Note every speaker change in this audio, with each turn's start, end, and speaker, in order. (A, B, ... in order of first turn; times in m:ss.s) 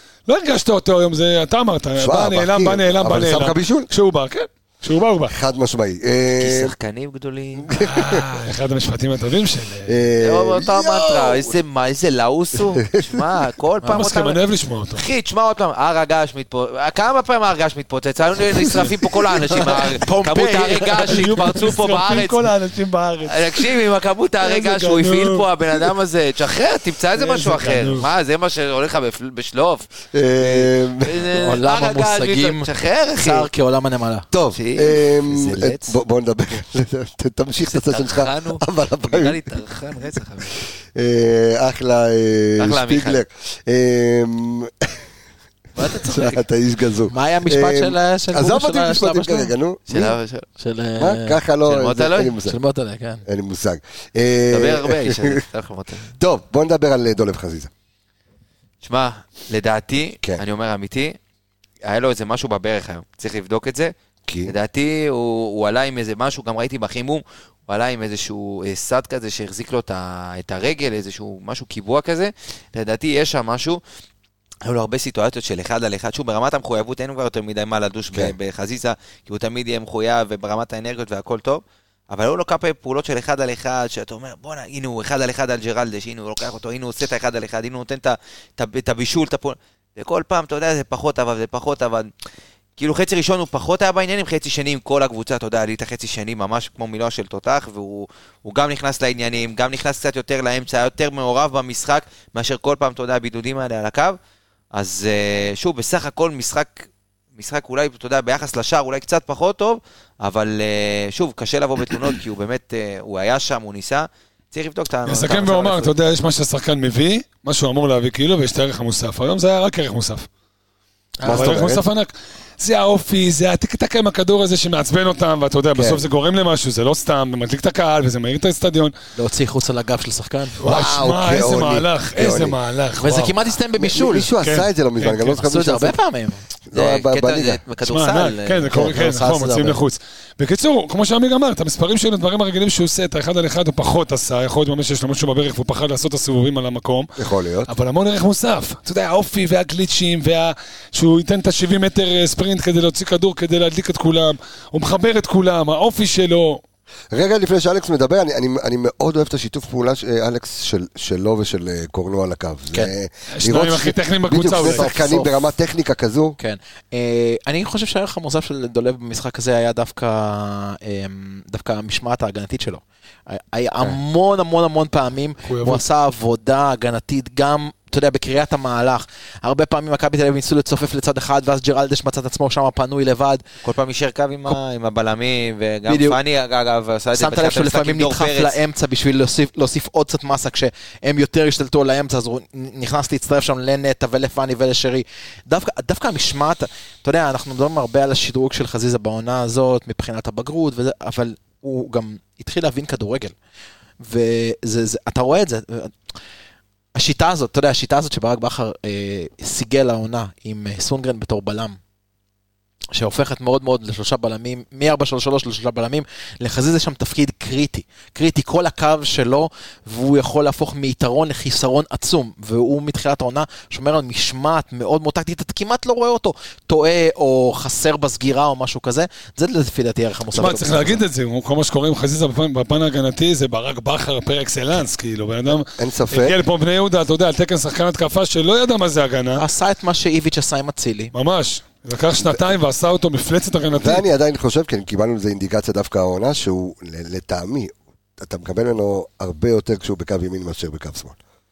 0:00.3-0:05.3 A
0:02.0-0:03.9 B
0:05.3-0:06.7 B
0:06.4-0:07.8 C
0:07.6-0:08.3 B
0:07.8-0:10.0 A
0:09.9-0:11.6 B
0:10.2-0:14.4 C
0:12.6-0:13.3 B
0:13.8-0:14.1 D
0:13.9-0:15.0 A
0:14.9-0:22.5 C
0:18.5-0:19.4 B
0:19.8-0:21.4 D
0:21.1-0:23.7 A
0:23.2-0:33.5 C
0:24.4-0:25.9 A
0:27.2-0:28.1 A
0:30.1-0:31.3 B
0:31.3-0:34.3 D
0:34.3-0:39.5 B
0:34.5-0:36.0 C
0:37.6-0:40.6 C
0:40.9-0:45.0 B
0:42.6-0:43.2 C
0:45.8-0:46.3 D
0:45.8-0:46.3 C
0:45.9-0:50.2 B
0:47.1-0:49.5 D
0:49.9-0:50.5 C
0:50.6-0:51.4 D
0:51.0-0:52.6 B
0:51.6-0:52.4 C
0:52.4-0:53.2 D
0:53.3-0:55.4 B
0:54.5-0:56.1 C
0:56.1-0:57.7 B
0:58.8-1:01.2 C
1:01.8-1:03.9 C
1:04.3-1:04.6 B
1:04.4-1:13.8 C
1:14.6-1:32.1 C
1:32.8-1:44.2 C
1:44.7-1:56.0 C
1:55.1-2:00.3 A
2:01.2-2:01.7 D
2:01.2-2:01.8 B
2:01.3-2:09.0 A
2:05.7-2:06.0 B
2:09.2-2:10.6 D
2:10.6-2:13.4 A
2:10.6-2:12.6 B
2:13.0-2:14.3 D
2:13.8-2:16.0 B
2:14.4-2:15.4 A
2:15.4-2:16.4 D
2:16.7-2:17.6 B
2:16.7-2:18.7 C
2:17.8-2:27.1 A
2:18.7-2:19.8 D
2:27.2-2:27.7 B
2:27.7-2:36.6 A
2:37.1-2:46.4 B
2:43.3-2:44.9 A
2:44.6-2:45.4 D
2:46.4-3:03.4 D
2:55.4-2:55.8 A
3:03.6-3:08.6 C
3:05.9-3:06.2 D
3:07.1-3:23.3 D
3:24.0-3:26.0 D
3:27.0-3:31.8 D
3:32.9-3:51.0 D
3:50.3-3:59.4 A
3:55.7-3:56.4 B
3:59.3-4:01.1 D
4:01.1-4:04.0 A
4:03.7-4:11.2 B